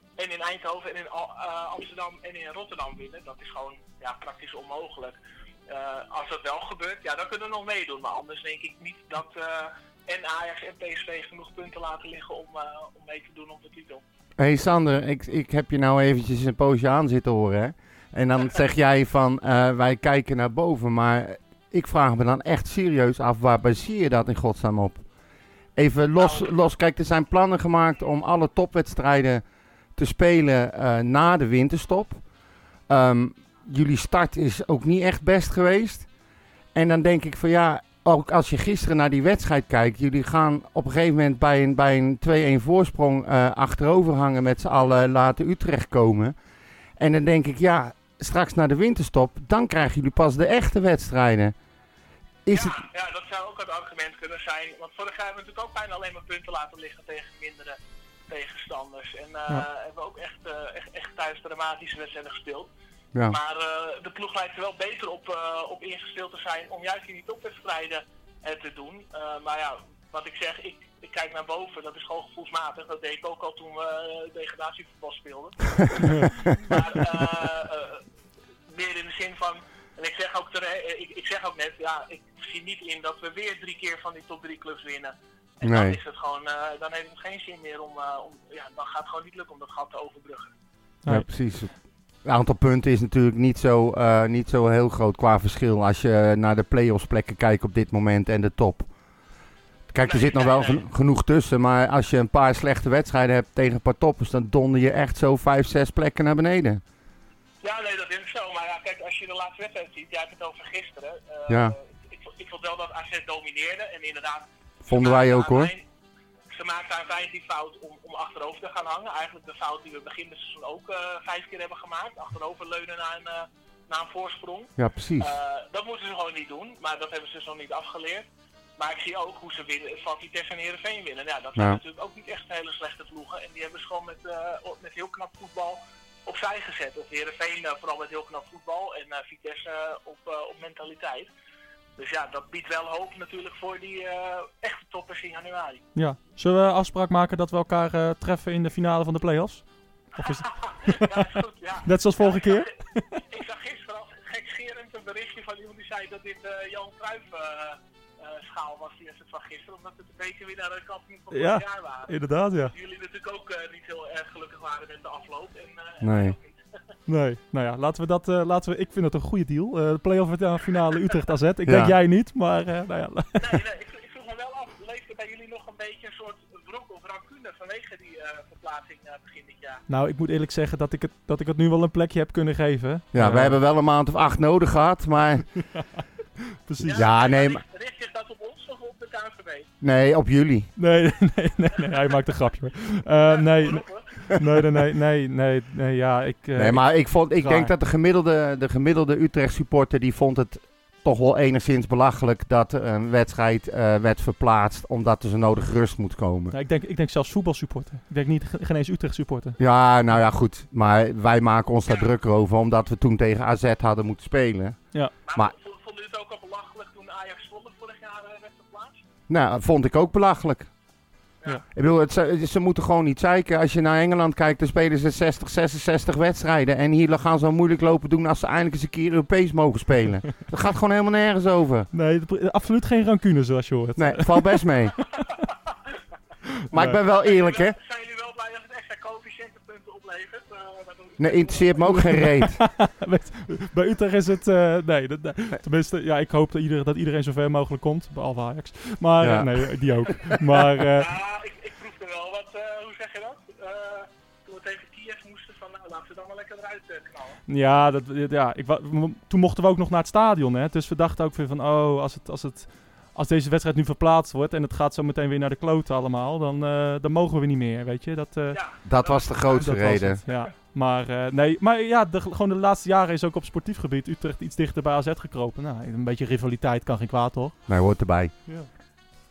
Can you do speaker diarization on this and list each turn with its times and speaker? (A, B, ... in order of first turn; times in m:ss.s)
0:00.2-0:14.0 A
0:14.4-0:25.0 B
0:25.8-0:29.4 B
0:26.2-0:26.5 A
0:30.0-0:32.2 B
0:32.9-0:36.1 B
0:36.7-0:46.3 B
0:47.0-0:51.5 B
0:52.4-0:52.8 B
0:52.5-0:57.8 A
0:58.3-1:02.7 A
1:03.3-1:18.0 A
1:18.7-1:30.5 A
1:25.6-1:26.0 B
1:31.1-1:38.9 B
1:39.9-1:46.8 B
1:40.0-1:40.8 A
1:47.6-1:55.8 A
1:51.5-1:51.7 B
1:54.8-1:55.7 B
1:56.5-2:08.3 A
2:04.8-2:05.4 B
2:08.8-2:21.3 A
2:22.0-2:25.8 A
2:25.9-2:33.2 C
2:30.2-2:46.6 A
2:41.3-2:42.7 C
2:46.0-2:46.4 B
2:47.1-2:53.6 C
2:51.6-2:52.0 B
2:53.4-2:59.8 A
2:59.9-3:03.6 C
3:03.1-3:05.5 B
3:06.6-3:07.0 C
3:06.8-3:09.7 A
3:06.9-3:07.6 B
3:09.8-3:10.7 B
3:10.8-3:17.7 C
3:13.3-3:14.3 A
3:16.6-3:26.5 B
3:26.5-3:29.6 C
3:29.6-3:34.8 B
3:35.2-3:39.0 A
3:39.3-3:40.7 B
3:41.7-3:51.9 B
3:51.9-3:54.6 C
3:54.0-3:54.9 B
3:56.7-3:57.8 B
3:56.7-3:57.0 C
3:57.1-4:02.0 A
4:01.2-4:02.6 B
4:01.8-4:11.1 C
4:09.2-4:09.6 B
4:10.9-4:17.4 A
4:17.5-4:28.6 C
4:28.5-4:29.6 A
4:28.8-4:30.2 B
4:29.5-4:37.6 C
4:37.7-4:38.3 B